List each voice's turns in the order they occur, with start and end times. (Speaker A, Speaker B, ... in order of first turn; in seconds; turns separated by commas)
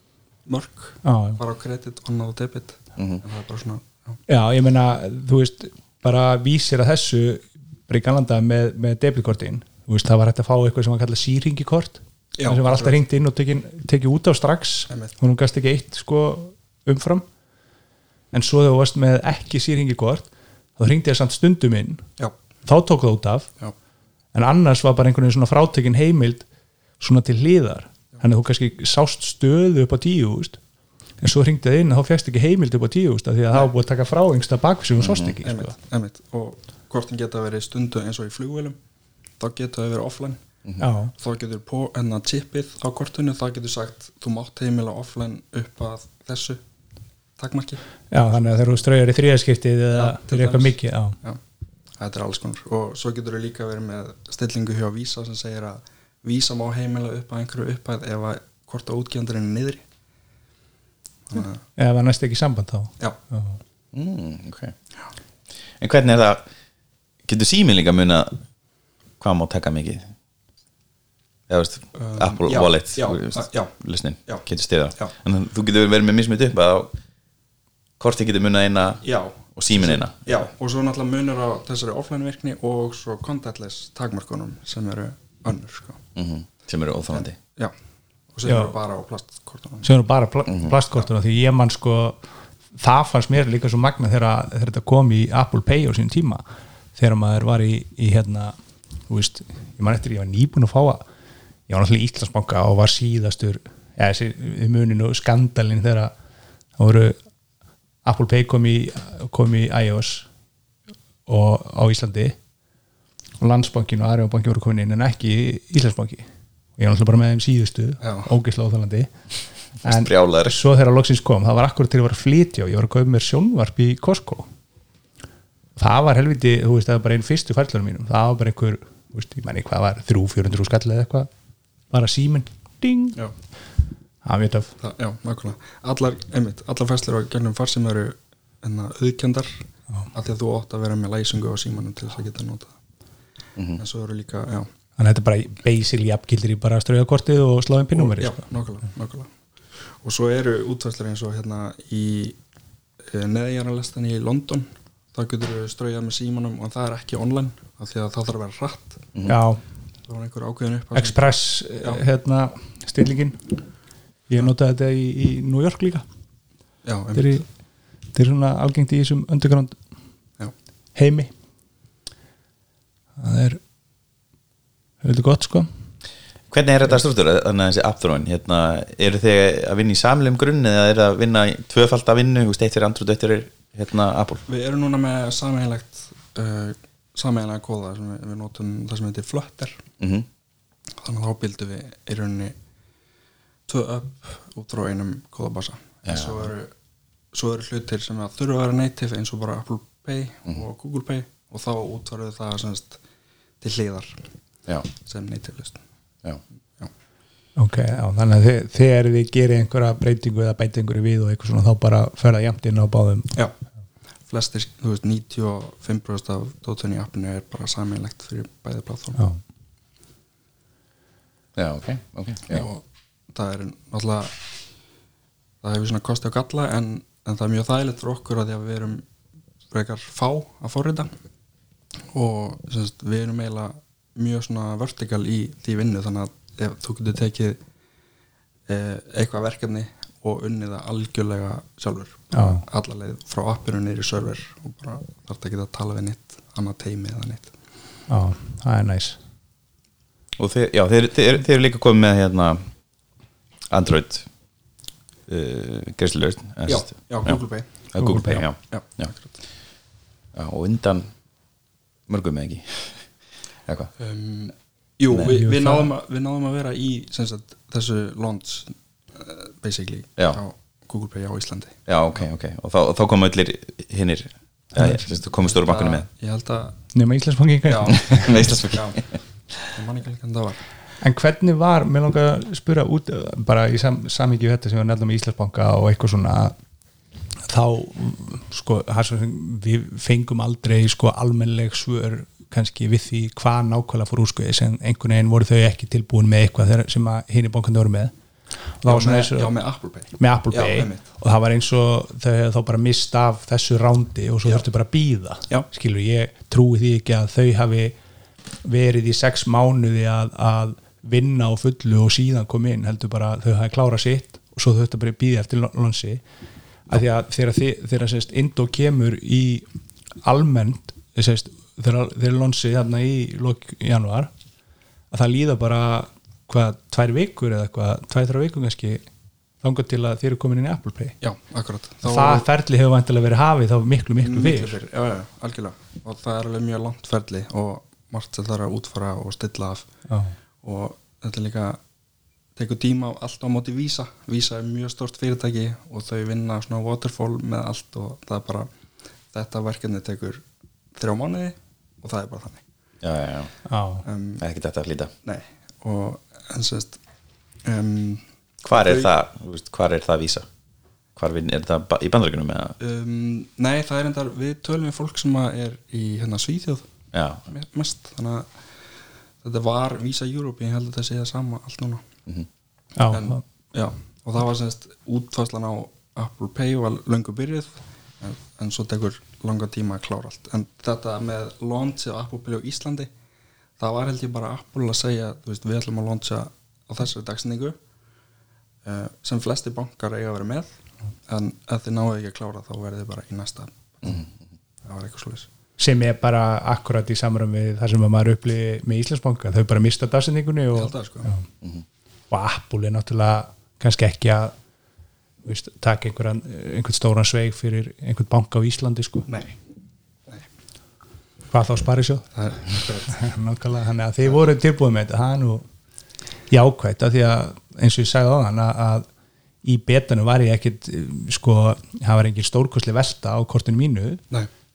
Speaker A: 0.5-4.2, Speaker B: 1.0-1.4, Speaker C: 3.0-3.2, Speaker B: 4.3-17.2, Speaker A: 12.4-13.0, Speaker A: 14.9-15.1, Speaker B: 18.3-22.0, Speaker B: 22.6-23.5, Speaker B: 24.3-26.4, Speaker B: 27.0-30.6, Speaker B: 31.2-35.7, Speaker C: 35.0-35.3, Speaker A: 35.4-38.8, Speaker A: 39.4-40.4, Speaker B: 40.8-41.1, Speaker A: 41.1-46.6, Speaker A: 47.4-47.8, Speaker B: 48.1-51.2, Speaker A: 49.9-51.4, Speaker A: 52.0-59.8, Speaker A: 61.3-61.6, Speaker B: 61.8-63.6, Speaker C: 63.9-64.7, Speaker C: 65.8-66.5, Speaker C: 67.2-68.4, Speaker C: 69.2-70.1, Speaker C: 71.5-76.9, Speaker A: 72.0-74.4, Speaker C: 78.0-80.5, Speaker A: 79.0-86.0, Speaker C: 86.1-87.3, Speaker A: 87.1-87.7, Speaker A: 88.3-89.9, Speaker B: 88.5-88.7, Speaker B: 89.8-92.2, Speaker C: 90.5-90.8, Speaker B: 92.8-96.4, Speaker B: 96.9-98.5, Speaker B: 99.1-101.0, Speaker B: 101.7-106.1, Speaker B: 106.8-107.2, Speaker B: 108.0-110.3, Speaker B: 111.3-112.3, Speaker B: 113.4-116.2, Speaker B: 116.8-119.1, Speaker A: 118.0-118.3, Speaker C: 119.8-120.5, Speaker B: 119.8-124.5, Speaker B: 125.8-131.3, Speaker B: 131.9-133.2, Speaker B: 134.2-134.7, Speaker A: 134.8-142.7, Speaker C: 143.6-143.8, Speaker A: 143.8-144.7, Speaker B: 145.0-148.4, Speaker A: 147.9-149.3, Speaker A: 150.0-152.4, Speaker A: 153.1-159.1, Speaker B: 159.2-159.6, Speaker A: 160.1-162.0, Speaker B: 160.9-163.4, Speaker B: 164.3-166.1, Speaker A: 166.8-167.4, Speaker B: 167.1-167.4, Speaker B: 168.1-169.8, Speaker B: 170.9-171.3, Speaker B: 173.2-173.6, Speaker B: 175.0-175.7, Speaker C: 176.5-184.4, Speaker A: 184.5-189.8, Speaker C: 190.0-190.3, Speaker A: 191.0-192.6, Speaker A: 193.7-196.7, Speaker C: 196.0-196.5, Speaker A: 197.3-203.0, Speaker A: 203.6-204.2, Speaker A: 205.0-205.8, Speaker B: 207.6-213.3, Speaker A: 214.3-219.2, Speaker C: 221.5-222.7, Speaker A: 222.5-224.4, Speaker A: 225.6-229.0, Speaker A: 229.7-231.1, Speaker A: 232.1-237.6, Speaker A: 238.7-247.5, Speaker B: 242.3-242.6, Speaker B: 248.1-249.2, Speaker C: 250.4-252.6, Speaker C: 253.7-254.3, Speaker C: 255.3-257.4, Speaker A: 256.7-257.7, Speaker C: 257.9-259.1, Speaker B: 258.0-258.4, Speaker A: 258.7-259.2, Speaker C: 260.3-261.1, Speaker C: 262.1-263.1, Speaker C: 263.6-263.9, Speaker A: 264.0-271.8, Speaker C: 265.1-265.4, Speaker B: 265.3-265.9, Speaker C: 271.9-276.1, Speaker A: 274.8-276.8, Speaker B: 276.9-278.3, Speaker A: 277.7-280.6, Speaker C: 278.1-279.0, Speaker B: 281.0-286.6, Speaker B: 287.4-298.1, Speaker B: 298.8-299.5, Speaker A: 298.8-301.0, Speaker B: 300.2-307.9, Speaker B: 308.6-316.2, Speaker B: 316.9-319.6, Speaker B: 320.2-324.3, Speaker B: 325.1-329.0, Speaker B: 329.6-331.1, Speaker A: 331.2-332.4, Speaker B: 332.0-334.8, Speaker A: 334.2-339.9, Speaker B: 340.1-340.3, Speaker A: 340.6-341.8, Speaker A: 342.6-348.7, Speaker A: 349.3-350.4, Speaker A: 350.9-352.6, Speaker C: 353.0-353.5, Speaker B: 353.6-354.0, Speaker A: 354.0-354.4, Speaker C: 354.4-355.1, Speaker A: 355.2-357.0, Speaker A: 357.6-359.1, Speaker C: 358.6-360.4, Speaker C: 361.1-362.8, Speaker A: 362.8-366.9, Speaker C: 367.1-367.4, Speaker A: 367.5-368.5, Speaker A: 369.4-372.0, Speaker B: 373.0-373.4, Speaker A: 373.1-383.1, Speaker A: 383.8-387.8, Speaker A: 388.8-394.2, Speaker A: 394.8-395.5, Speaker B: 395.8-401.4, Speaker A: 400.7-401.3, Speaker B: 402.3-404.5, Speaker B: 405.4-409.3, Speaker A: 409.3-409.6, Speaker B: 411.5-412.4, Speaker A: 412.4-413.2, Speaker B: 413.1-415.6, Speaker B: 416.5-419.1, Speaker B: 419.6-424.2